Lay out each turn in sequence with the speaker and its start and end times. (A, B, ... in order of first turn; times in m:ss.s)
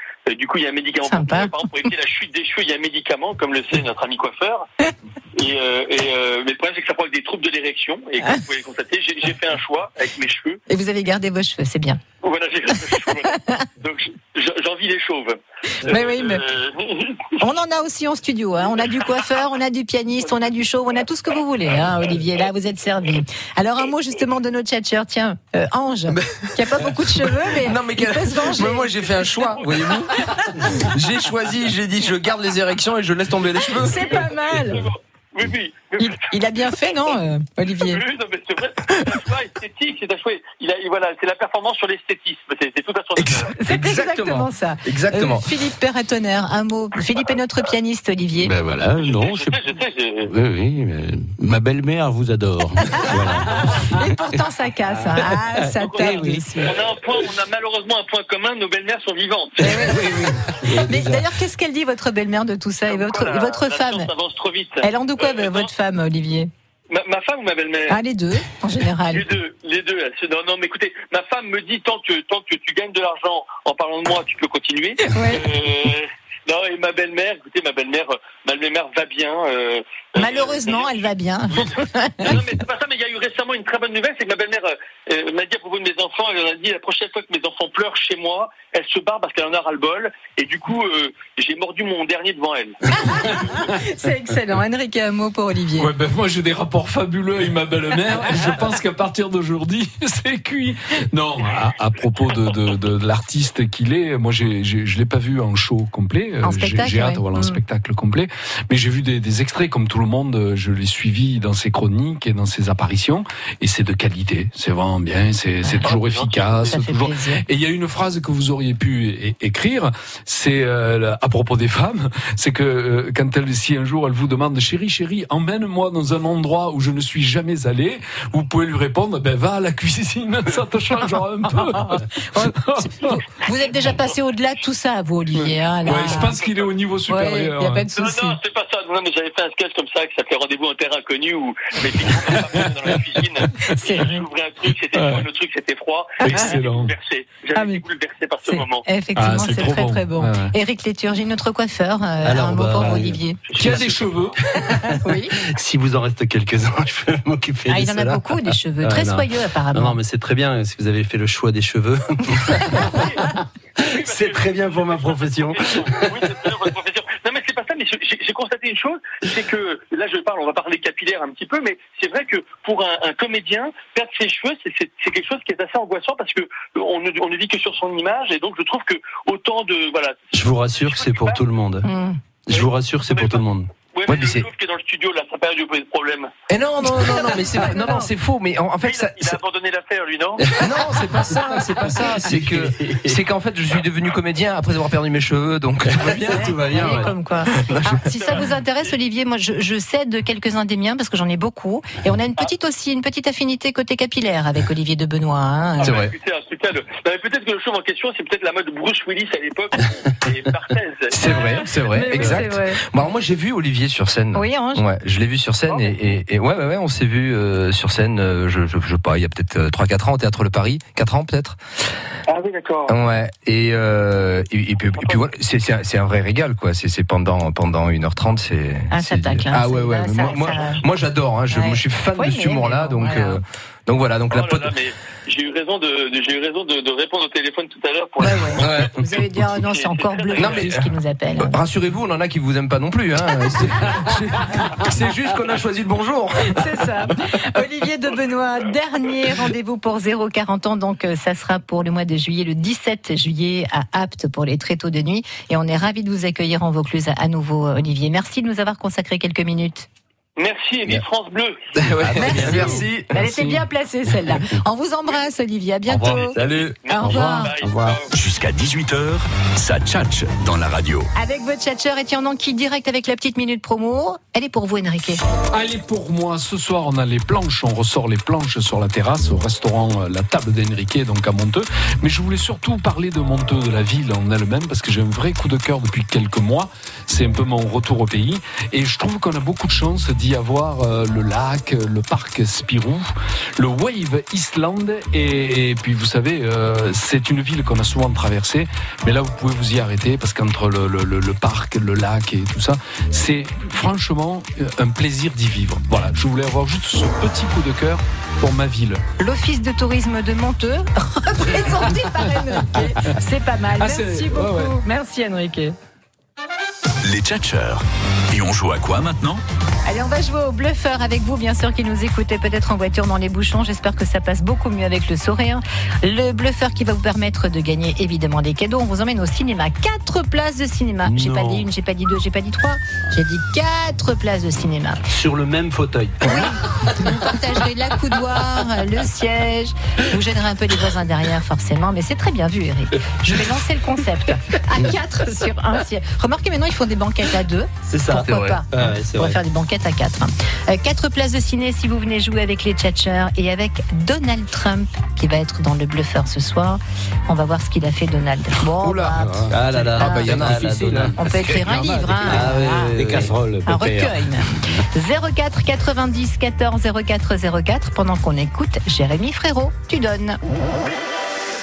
0:00.2-0:04.7 A
0:01.1-0:01.6 B
0:05.3-0:10.6 A
0:10.7-0:12.0 B
0:12.2-0:17.4 A
0:13.3-0:13.6 B
0:15.8-0:16.4 B
0:17.4-0:28.9 B
0:26.1-0:26.5 C
0:27.0-0:34.2 C
0:29.3-0:29.9 A
0:30.3-0:30.8 B
0:33.6-0:34.8 B
0:34.1-0:37.2 A
0:36.0-0:38.0 B
0:37.8-0:43.5 A
0:43.2-0:45.5 C
0:43.5-0:48.5 B
0:48.4-0:49.7 D
0:49.0-0:50.3 A
0:50.2-0:54.4 D
0:52.9-0:56.7 B
0:55.1-0:56.6 D
0:55.8-0:59.9 A
0:59.6-1:00.2 B
0:59.6-1:01.3 D
1:00.8-1:04.1 B
1:02.9-1:05.7 A
1:04.8-1:06.5 B
1:06.9-1:08.0 A
1:07.9-1:09.3 B
1:09.1-1:33.7 A
1:15.0-1:15.5 B
1:20.2-1:22.4 B
1:32.9-1:35.9 B
1:35.8-2:13.2 E
1:46.4-1:47.6 B
1:55.6-1:55.9 B
1:55.8-1:56.8 A
1:56.7-1:57.4 B
2:11.5-2:16.4 B
2:15.3-2:17.9 E
2:16.1-2:16.7 A
2:17.1-2:18.4 B
2:17.9-2:28.8 A
2:23.7-2:24.2 B
2:25.0-2:25.2 E
2:26.2-2:26.9 E
2:27.5-2:27.8 B
2:28.5-2:33.5 B
2:29.1-2:30.5 E
2:32.2-2:33.8 F
2:33.5-2:33.9 A
2:33.5-2:34.4 E
2:34.7-2:35.4 B
2:34.9-2:43.0 F
2:37.7-2:40.0 B
2:42.9-2:43.2 A
2:43.8-2:46.3 F
2:43.8-3:01.4 A
3:00.3-3:01.9 F
3:01.8-3:02.2 B
3:02.4-3:03.7 F
3:02.5-3:06.3 A
3:04.1-3:04.5 C
3:06.5-3:09.4 C
3:06.8-3:08.1 B
3:08.8-3:10.4 A
3:10.4-3:13.2 F
3:10.6-3:16.5 C
3:11.3-3:11.7 B
3:15.9-3:17.8 F
3:16.2-3:26.0 B
3:18.0-3:18.4 A
3:25.8-3:31.1 A
3:25.8-3:26.1 C
3:31.1-3:41.6 C
3:31.2-3:32.8 B
3:34.3-3:34.8 B
3:35.7-3:35.9 A
3:42.3-3:42.9 A
3:42.9-3:54.7 C
3:45.0-3:45.2 A
3:48.9-3:50.8 B
3:51.5-3:53.4 B
3:54.3-4:00.6 A
3:58.2-4:01.6 B
3:58.6-3:59.0 C
4:00.4-4:06.7 C
4:06.5-4:19.9 B
4:20.4-4:21.6 A
4:21.8-4:23.1 C
4:22.1-4:27.5 B
4:22.2-4:22.8 F
4:23.1-4:23.6 E
4:25.9-4:26.7 F
4:26.4-4:28.1 A
4:27.0-4:28.0 D
4:28.1-4:31.1 G
4:31.1-4:35.2 B
4:35.5-5:09.0 E
5:09.2-5:15.7 B
5:13.8-5:14.7 E
5:17.0-5:19.4 G
5:19.8-5:35.0 B
5:31.0-5:31.7 F
5:35.1-5:36.5 F
5:36.2-6:03.1 B
5:47.8-5:49.4 F
5:59.0-5:59.5 D
5:59.5-6:03.3 F
6:00.0-6:00.6 C
6:00.4-6:04.8 D
6:03.6-6:10.4 B